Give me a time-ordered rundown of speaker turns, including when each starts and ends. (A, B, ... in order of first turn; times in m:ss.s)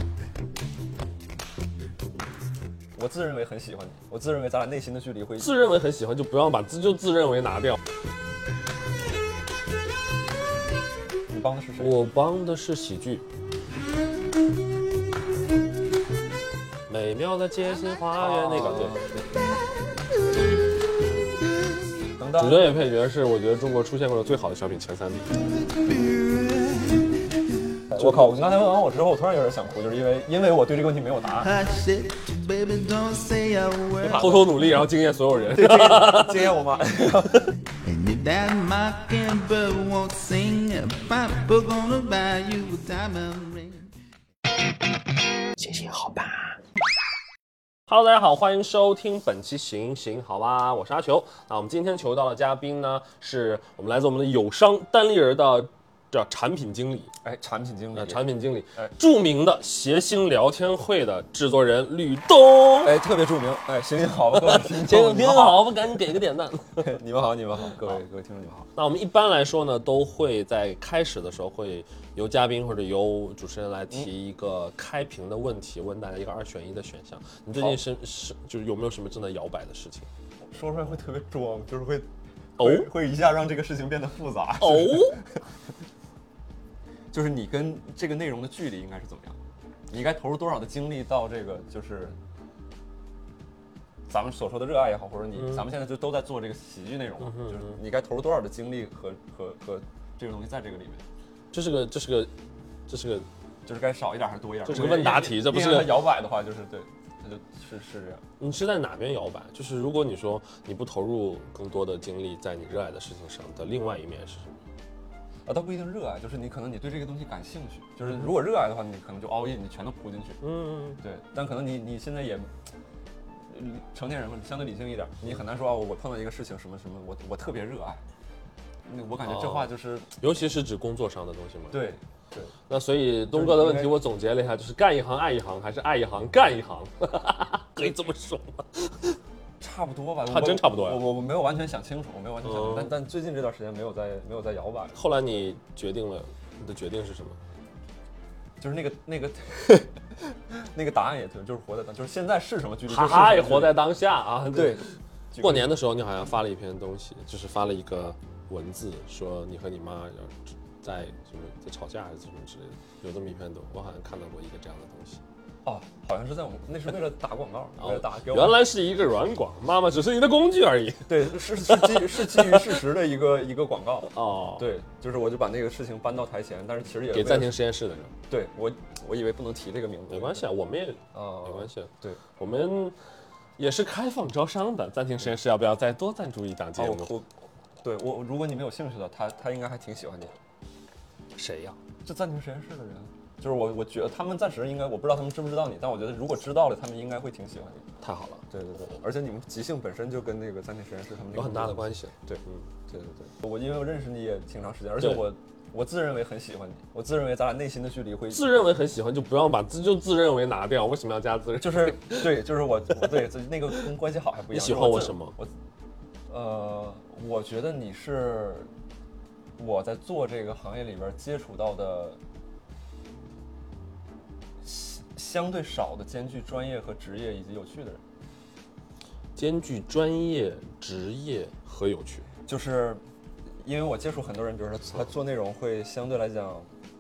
0:03.0-0:05.5 A
0:05.4-0:07.8 B
0:11.3-0:12.0 A
0:11.8-0:13.3 B
0:16.9-0:19.0 B
0:18.2-0:19.3 A
0:22.2-0:22.8 A
0:22.4-0:25.3 B
0:25.6-0:27.6 C
0:27.9-0:31.5 A
0:28.0-0:28.2 B
0:31.4-0:34.4 C
0:34.0-0:34.6 A
0:34.1-0:36.5 B
0:35.5-0:37.5 A
0:37.8-0:43.9 C
0:45.6-0:46.5 B
0:47.9-0:57.1 B
0:57.2-0:58.9 A
0:57.9-1:03.0 B
1:02.8-1:05.8 A
1:04.4-1:07.0 B
1:06.8-1:08.7 A
1:08.8-1:20.1 B
1:20.5-1:22.1 A
1:22.6-1:25.4 A
1:22.6-1:22.9 B
1:24.6-1:25.2 B
1:27.1-1:29.4 A
1:29.9-1:32.2 A
1:34.1-1:41.0 A
1:35.4-1:35.7 B
1:37.2-1:37.8 B
1:41.5-1:42.3 B
1:42.9-1:43.3 B
1:43.7-1:48.2 A
1:44.6-1:46.1 B
1:48.4-1:54.5 B
1:55.5-2:00.4 A
1:58.0-1:58.3 B
2:00.4-2:01.0 B
2:01.0-2:02.5 A
2:03.5-2:08.0 A
2:08.9-2:10.1 A
2:09.2-2:11.8 B
2:11.7-2:12.5 A
2:12.7-2:19.2 B
2:13.3-2:14.0 A
2:19.6-2:25.0 A
2:20.2-2:21.0 B
2:22.4-2:22.9 B
2:24.9-2:27.4 B
2:28.6-2:33.8 A
2:32.9-2:45.2 B
2:34.5-2:35.7 A
2:45.6-2:48.6 A
2:47.8-2:52.8 B
2:51.1-2:57.6 A
2:54.0-2:54.7 B
2:57.1-2:58.1 B
2:58.3-3:00.5 A
3:00.1-3:03.0 B
3:01.1-3:02.2 A
3:03.6-3:07.2 B
3:06.8-3:07.3 A
3:07.8-3:10.4 A
3:11.4-3:11.8 B
3:12.0-3:17.9 A
3:18.0-3:18.4 B
3:18.5-3:28.5 A
3:21.3-3:22.7 B
3:28.3-3:32.2 B
3:31.6-3:35.5 A
3:34.5-3:35.4 B
3:36.3-3:38.7 A
3:39.6-3:42.2 A
3:44.6-3:48.0 A
3:49.4-3:52.3 B
3:52.5-3:53.0 A
3:53.6-3:56.7 A